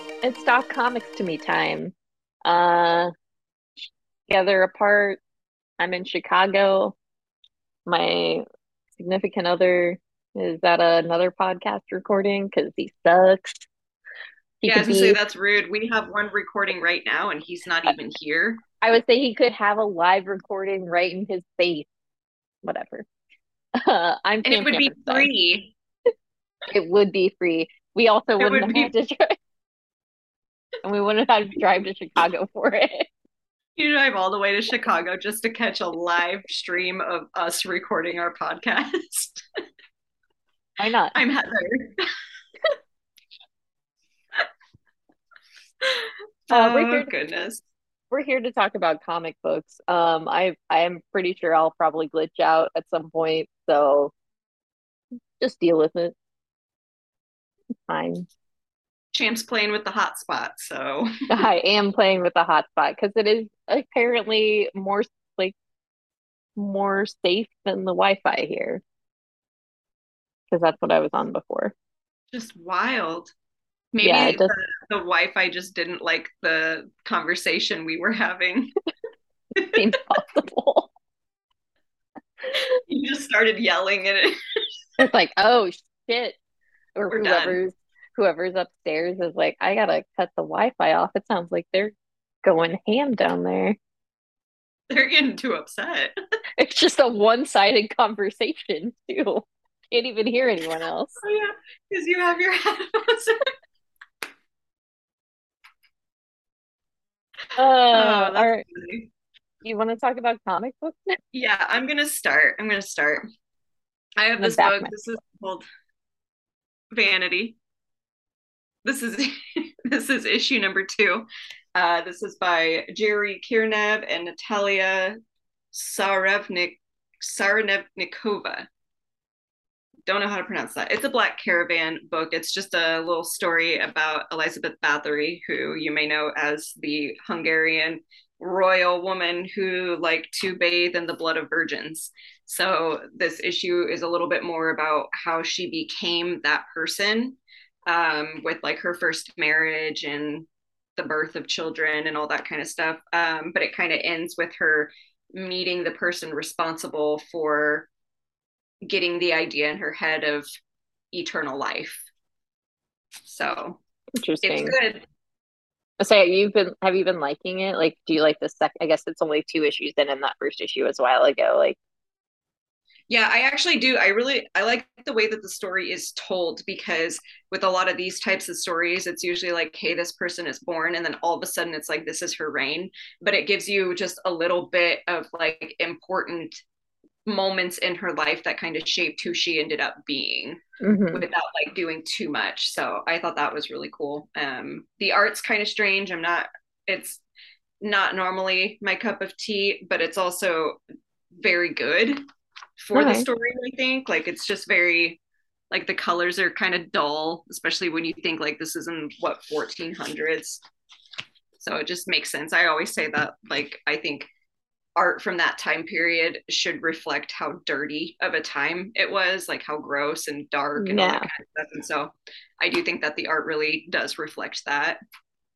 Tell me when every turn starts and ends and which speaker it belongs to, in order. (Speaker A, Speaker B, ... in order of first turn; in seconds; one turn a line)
Speaker A: 0.2-1.9
Speaker A: 2.5-3.1
Speaker A: 3.8-5.2
Speaker A: 5.8-7.0
Speaker A: 7.9-8.4
Speaker A: 8.9-13.7
Speaker A: 14.6-15.2
Speaker B: 14.7-18.6
Speaker A: 18.8-21.9
Speaker A: 22.6-23.1
Speaker A: 23.8-25.3
Speaker B: 24.4-25.7
Speaker A: 26.7-29.4
Speaker B: 28.4-28.9
Speaker A: 30.8-33.1
Speaker B: 33.8-39.4
Speaker A: 40.8-41.2
Speaker B: 41.1-42.1
Speaker B: 45.8-47.6
Speaker A: 46.5-47.1
Speaker A: 48.1-54.1
Speaker A: 55.4-56.1
Speaker A: 57.9-58.2
Speaker B: 59.1-61.1
Speaker A: 61.3-65.5
Speaker A: 66.6-68.8
Speaker A: 70.5-71.7
Speaker B: 72.3-73.3
Speaker B: 73.9-78.7
Speaker A: 74.0-74.5
Speaker B: 79.6-79.8
Speaker A: 79.7-80.9
Speaker B: 82.5-84.3
Speaker A: 85.0-86.4
Speaker A: 87.0-93.8
Speaker B: 87.1-87.6
Speaker B: 94.9-96.1
Speaker A: 96.6-101.1
Speaker B: 101.2-103.5
Speaker A: 107.6-108.6
Speaker B: 107.9-109.1
Speaker A: 109.6-111.2
Speaker B: 111.3-113.2
Speaker B: 114.2-115.7
Speaker A: 114.4-114.9
Speaker B: 116.9-117.6
Speaker B: 118.8-125.2
Speaker B: 125.7-128.7
Speaker B: 130.1-150.5
Speaker B: 151.0-157.9
Speaker B: 158.8-160.5
Speaker B: 161.1-162.1
Speaker B: 163.3-163.8
Speaker A: 164.2-164.8
Speaker B: 164.4-165.0
Speaker A: 166.0-171.8
Speaker B: 173.1-186.6
Speaker B: 187.3-190.6
Speaker A: 190.8-191.3
Speaker B: 191.1-197.2
Speaker B: 197.8-200.8
Speaker B: 201.4-202.2
Speaker B: 202.8-205.2
Speaker A: 202.9-203.3
Speaker B: 205.7-210.6
Speaker B: 211.6-214.3
Speaker B: 215.0-225.0
Speaker A: 220.8-221.3